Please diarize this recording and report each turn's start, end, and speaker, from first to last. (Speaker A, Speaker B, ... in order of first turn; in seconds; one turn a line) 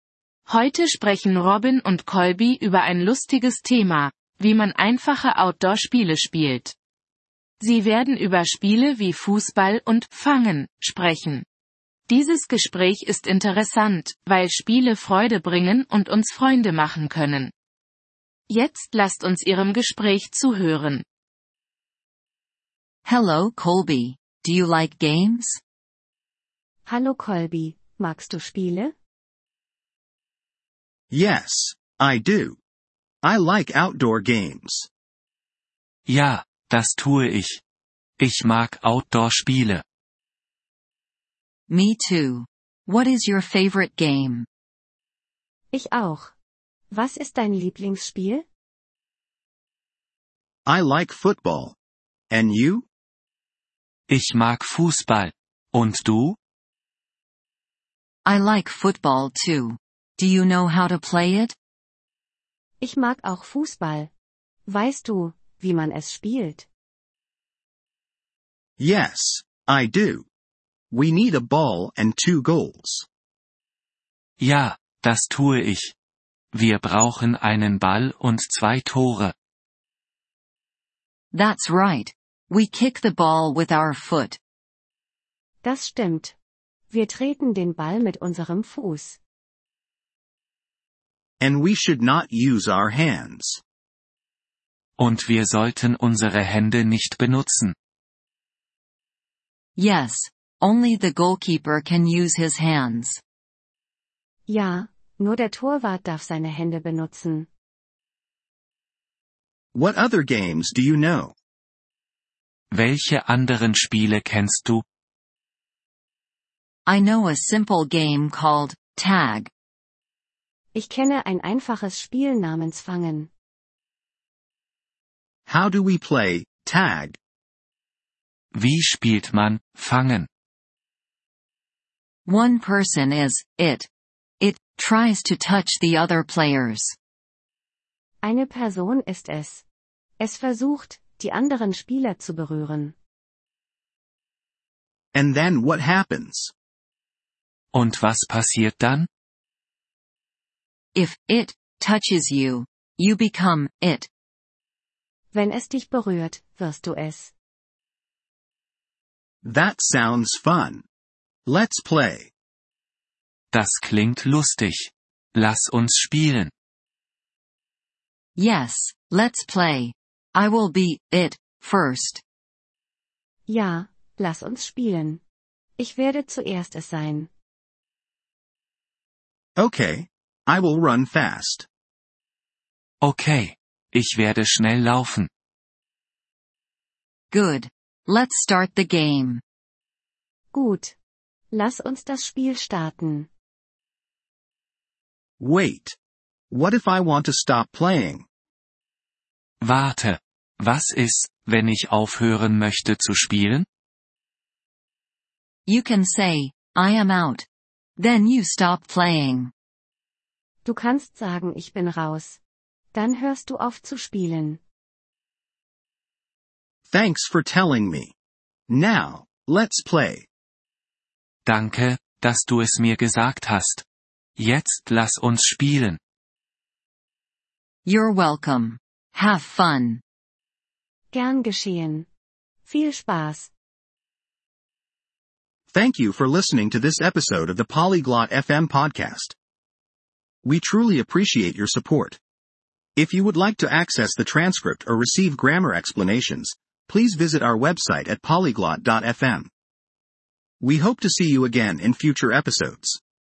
Speaker A: 0.5-6.8
Speaker A: 7.6-11.5
Speaker A: 12.1-17.5
Speaker A: 18.5-21.1
Speaker B: 23.1-25.6
Speaker C: 26.9-28.9
Speaker D: 31.1-32.6
Speaker D: 33.2-34.9
Speaker E: 36.1-37.6
Speaker E: 38.2-39.8
Speaker B: 41.7-44.5
Speaker C: 45.7-46.4
Speaker C: 46.9-48.5
Speaker D: 50.7-51.8
Speaker D: 52.3-52.9
Speaker E: 54.1-56.4
Speaker B: 58.2-61.6
Speaker C: 62.8-64.1
Speaker C: 64.7-66.7
Speaker D: 68.8-70.3
Speaker D: 70.9-73.1
Speaker E: 74.4-75.9
Speaker E: 76.5-79.3
Speaker B: 81.3-84.4
Speaker C: 85.6-86.3
Speaker C: 86.9-89.2
Speaker D: 91.4-93.6
Speaker E: 95.0-97.8
Speaker B: 99.8-103.2
Speaker C: 104.5-107.5
Speaker D: 109.7-111.3
Speaker E: 112.7-114.8
Speaker B: 116.9-119.5
Speaker C: 120.8-123.3
Speaker D: 125.5-127.2
Speaker E: 128.5-130.3
Speaker B: 132.3-133.9
Speaker B: 134.4-136.9
Speaker C: 138.2-139.7
Speaker C: 140.2-143.0
Speaker D: 145.1-146.5
Speaker E: 147.7-149.1
Speaker B: 150.9-154.1
Speaker C: 155.3-157.3
Speaker D: 159.4-160.8
Speaker D: 161.5-162.3
Speaker E: 163.5-166.5
Speaker B: 168.4-172.2
Speaker C: 173.5-175.2
Speaker C: 175.8-177.3
Speaker D: 179.6-181.7
Speaker E: 183.0-185.3
Speaker B: 187.3-189.4
Speaker C: 190.5-191.0
Speaker C: 191.5-193.3
Speaker D: 195.4-196.0
Speaker D: 196.5-198.3
Speaker E: 199.6-203.7
Speaker B: 205.7-209.5
Speaker C: 210.7-212.4
Speaker C: 212.9-214.6
Speaker D: 216.9-218.1
Speaker D: 218.7-220.3
Speaker E: 221.5-223.8
Speaker E: 224.4-226.0
Speaker B: 227.8-230.0
Speaker C: 231.1-232.1
Speaker C: 232.7-233.5
Speaker D: 235.7-239.4
Speaker D: 240.4-242.2
Speaker D: 243.0-249.5
Speaker D: 250.6-253.0